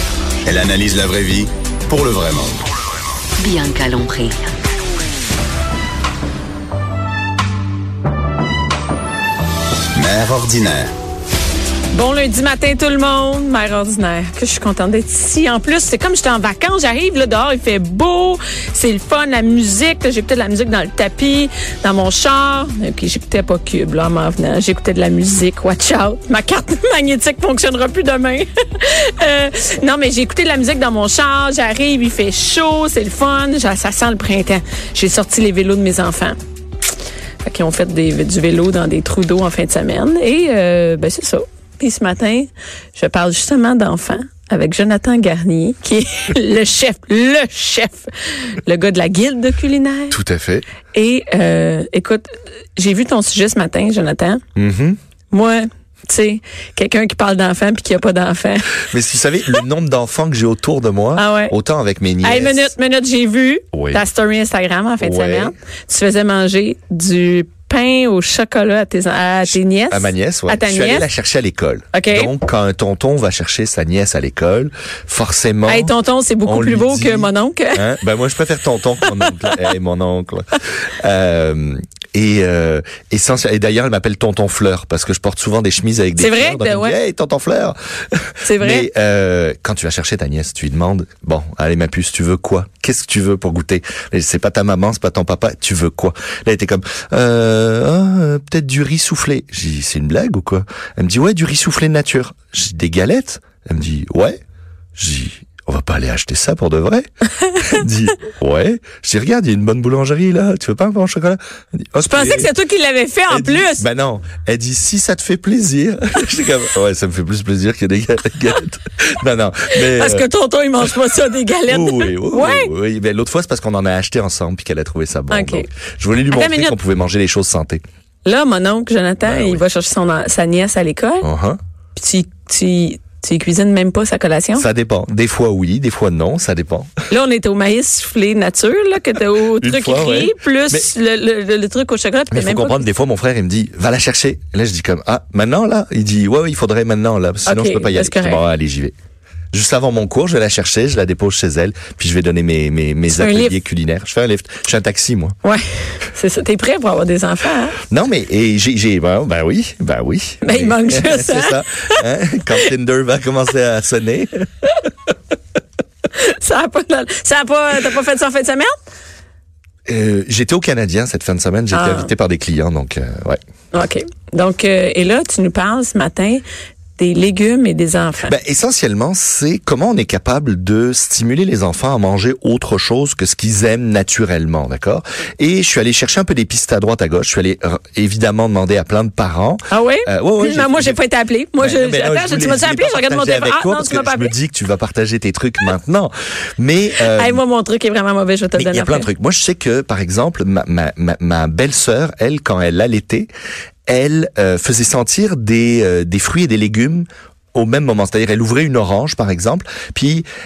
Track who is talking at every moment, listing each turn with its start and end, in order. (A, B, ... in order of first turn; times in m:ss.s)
0:00.4-0:02.6 A
0:03.4-0:04.4 A
0:09.9-0:10.9 A
0:11.9-0:36.4 B
0:37.4-0:50.2 B
0:50.1-0:50.6 C
0:50.9-0:54.4 B
0:54.6-0:55.0 C
0:55.3-0:58.8 B
0:58.9-1:02.7 C
1:01.1-1:01.5 B
1:02.2-1:11.0 B
1:03.7-1:04.0 C
1:05.0-1:05.5 C
1:09.5-1:15.9 C
1:11.9-1:12.3 B
1:15.7-1:17.9 B
1:16.4-1:44.4 C
1:19.0-1:19.5 B
1:26.2-1:27.0 B
1:28.4-1:28.9 B
1:45.0-1:47.1 C
1:47.6-1:51.4 C
1:51.9-1:52.5 C
1:52.0-1:53.8 B
1:53.3-2:00.3 C
1:59.7-2:02.7 B
2:01.7-2:07.8 C
2:05.3-2:05.7 B
2:06.3-2:06.8 B
2:08.2-2:11.3 B
2:09.2-2:09.6 C
2:11.2-2:11.6 C
2:11.9-2:14.6 B
2:14.5-2:16.9 C
2:17.1-2:22.8 B
2:19.6-2:20.9 C
2:22.3-2:28.9 C
2:27.4-2:28.4 B
2:29.5-2:35.4 C
2:33.1-2:33.5 B
2:35.4-2:37.8 B
2:37.9-2:44.5 C
2:40.4-2:42.0 B
2:46.2-2:48.7 B
2:49.9-2:53.4 C
2:51.7-2:52.1 B
2:53.7-2:56.4 B
2:57.0-2:58.3 B
2:58.2-3:11.0 C
3:09.7-3:14.3 B
3:11.6-3:17.4 C
3:17.0-3:19.1 B
3:18.6-3:23.3 C
3:23.9-3:30.2 C